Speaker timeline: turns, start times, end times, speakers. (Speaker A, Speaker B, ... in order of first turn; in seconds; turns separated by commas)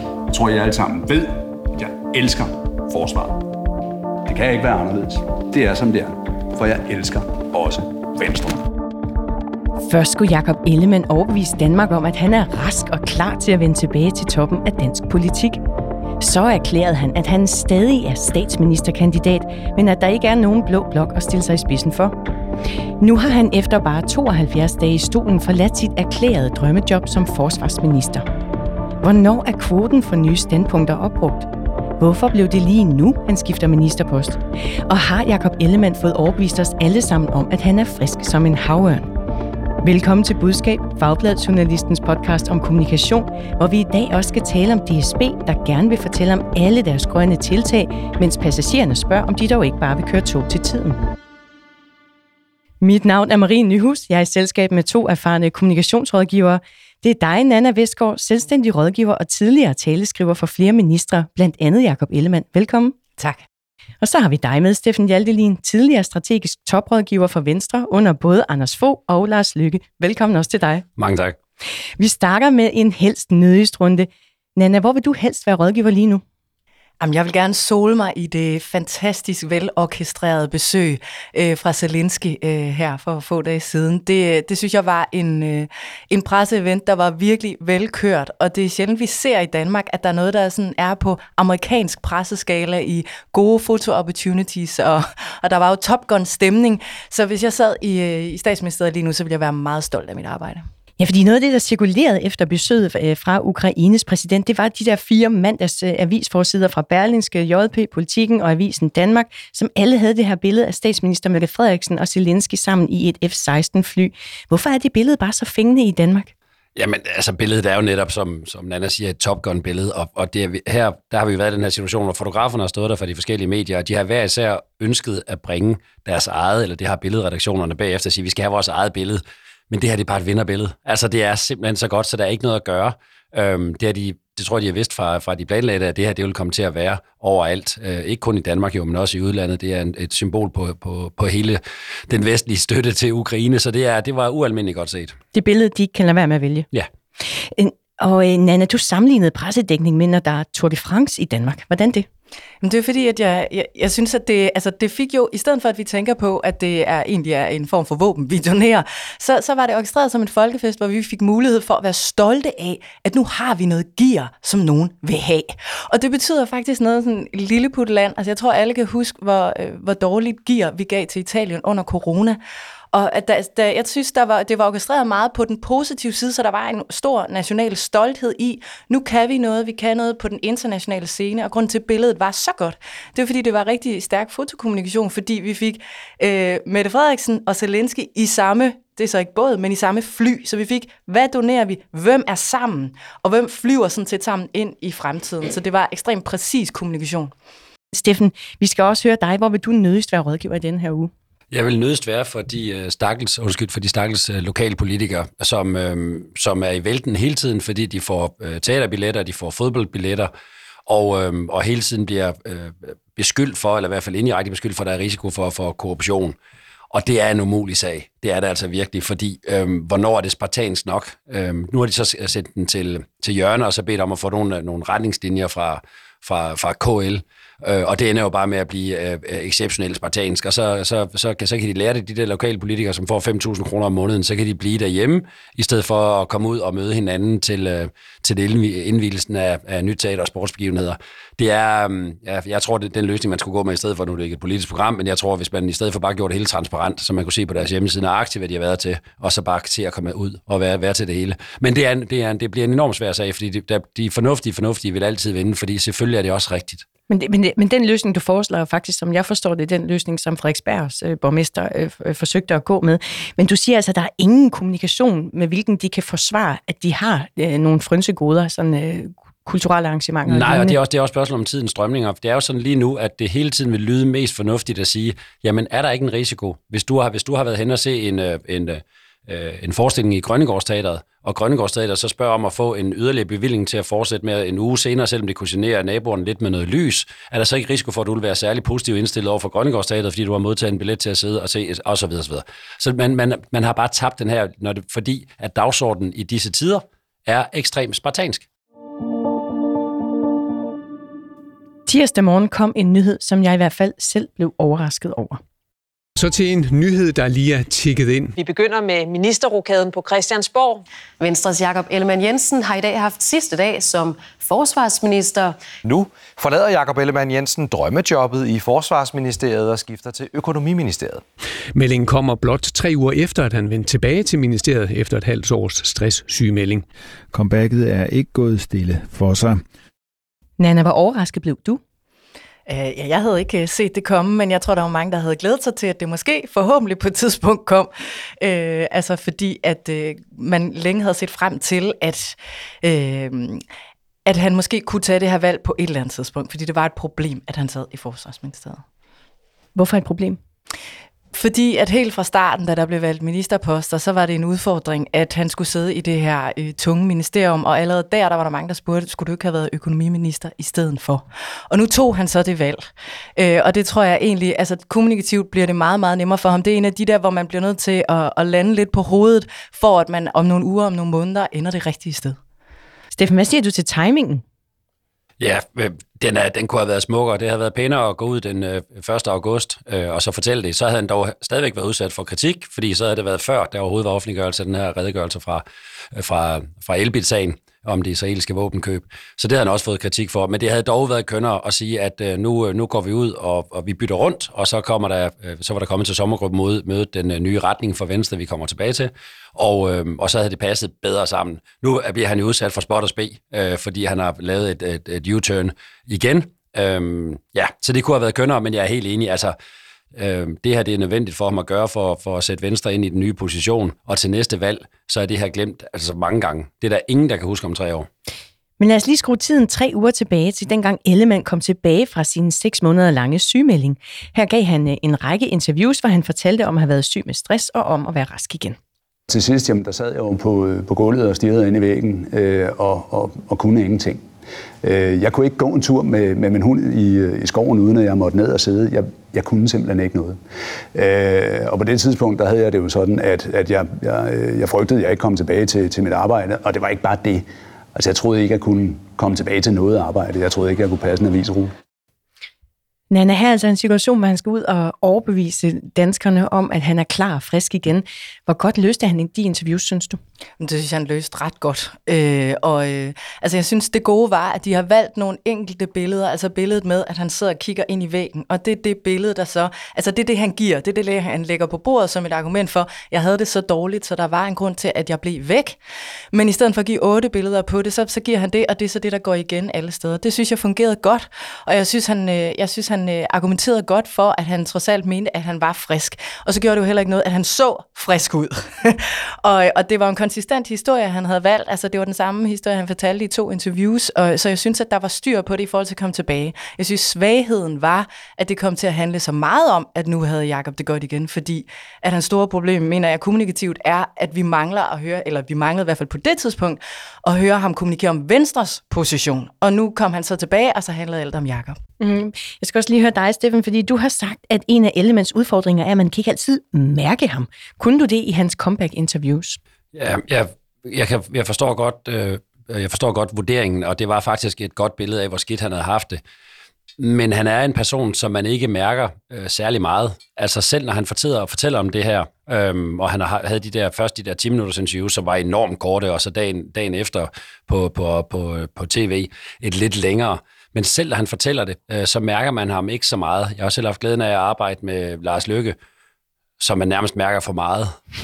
Speaker A: 0.3-3.4, Speaker A: 4.3-8.7, Speaker B: 9.8-15.6, Speaker B: 16.2-22.2, Speaker B: 23.0-28.2, Speaker B: 29.0-39.1, Speaker B: 39.8-51.0, Speaker B: 52.8-63.0, Speaker B: 64.0-70.9, Speaker C: 71.0-71.4, Speaker B: 72.0-76.2, Speaker D: 77.0-100.7, Speaker B: 101.0-116.3, Speaker C: 116.8-145.2, Speaker B: 145.3-146.7, Speaker B: 147.2-152.1, Speaker D: 152.6-172.4, Speaker D: 172.9-197.3, Speaker B: 197.9-201.1, Speaker C: 201.5-210.3, Speaker C: 210.9-216.4, Speaker C: 216.9-256.9, Speaker B: 257.1-270.8, Speaker C: 270.3-298.4, Speaker B: 301.9-305.4, Speaker E: 306.2-308.4, Speaker F: 308.4-310.8, Speaker G: 311.2-315.6, Speaker H: 315.8-321.2, Speaker E: 321.8-326.9, Speaker I: 327.3-329.6, Speaker B: 330.6-331.8, Speaker D: 332.7-343.6, Speaker D: 344.3-348.8, Speaker B: 349.8-350.4, Speaker D: 351.3-372.4, Speaker B: 373.1-374.4, Speaker C: 375.4-409.6, Speaker C: 410.1-418.1, Speaker B: 418.8-428.8, Speaker A: 429.3-434.2, Speaker A: 434.8-440.4, Speaker A: 440.9-451.7, Speaker B: 453.1-460.2, Speaker D: 460.6-475.8, Speaker D: 476.3-511.8, Speaker B: 512.0-519.6, Speaker C: 519.9-526.2, Speaker C: 527.0-545.8, Speaker C: 546.6-548.0